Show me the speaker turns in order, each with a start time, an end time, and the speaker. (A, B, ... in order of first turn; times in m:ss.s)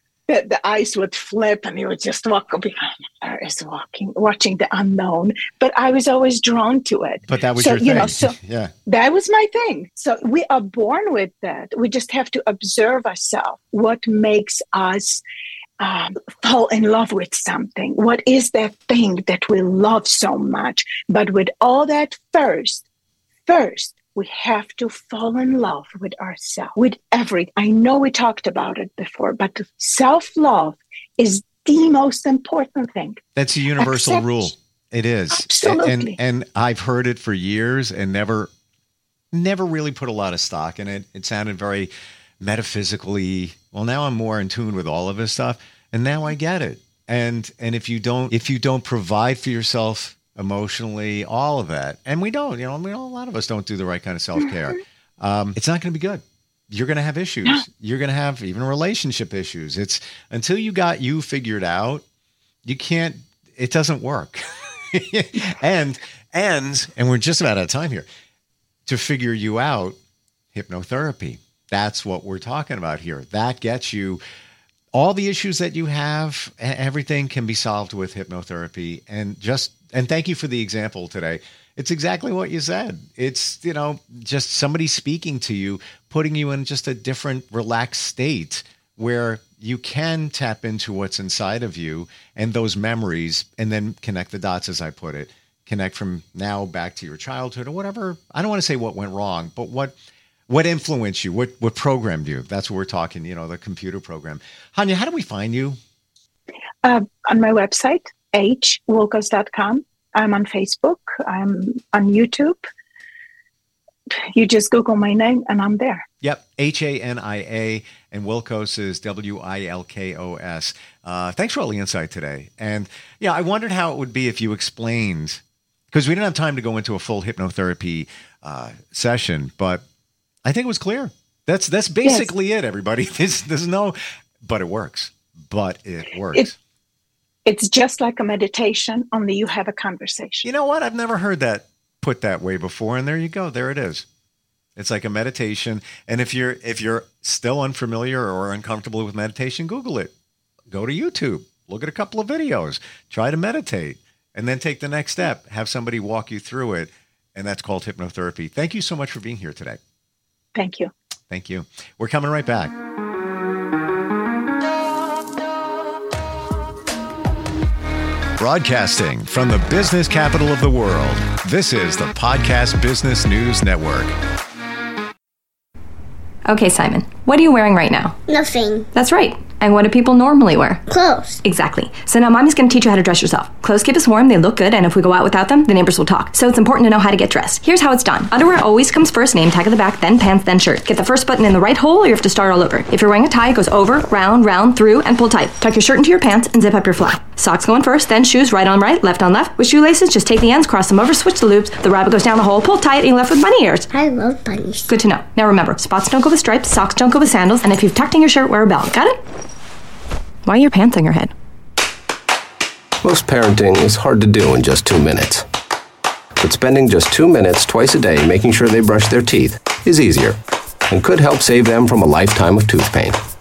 0:00.3-0:08.3 A
0:07.3-0:08.7 B
0:08.8-0:15.2 A
0:15.8-0:22.8 A
0:23.4-0:33.2 A
0:33.4-0:38.5 B
0:33.8-0:34.5 A
0:35.3-0:36.2 A
0:39.3-1:02.0 B
1:02.6-1:08.0 B
1:08.8-1:10.0 B
1:10.5-1:14.2 B
1:14.9-1:39.9 B
1:40.5-1:45.8 B
1:46.8-1:52.6 A
1:54.2-1:56.0 A
1:56.2-2:05.4 B
2:05.9-2:09.8 B
2:10.4-2:16.6 B
2:12.0-2:12.3 A
2:17.4-2:20.5 A
2:20.4-2:24.0 B
2:24.8-2:30.1 B
2:30.7-2:39.8 B
2:40.5-2:40.9 A
2:41.3-2:42.7 B
2:48.4-2:54.1 B
2:56.4-2:58.2 C
2:58.3-2:58.9 D
2:58.9-3:00.8 C
3:00.9-3:01.4 D
3:01.4-3:23.9 C
3:23.9-3:24.9 D
3:24.9-3:29.2 C
3:30.4-3:31.3 C
3:33.0-3:35.4 E
3:36.4-3:40.4 E
3:40.9-3:43.2 E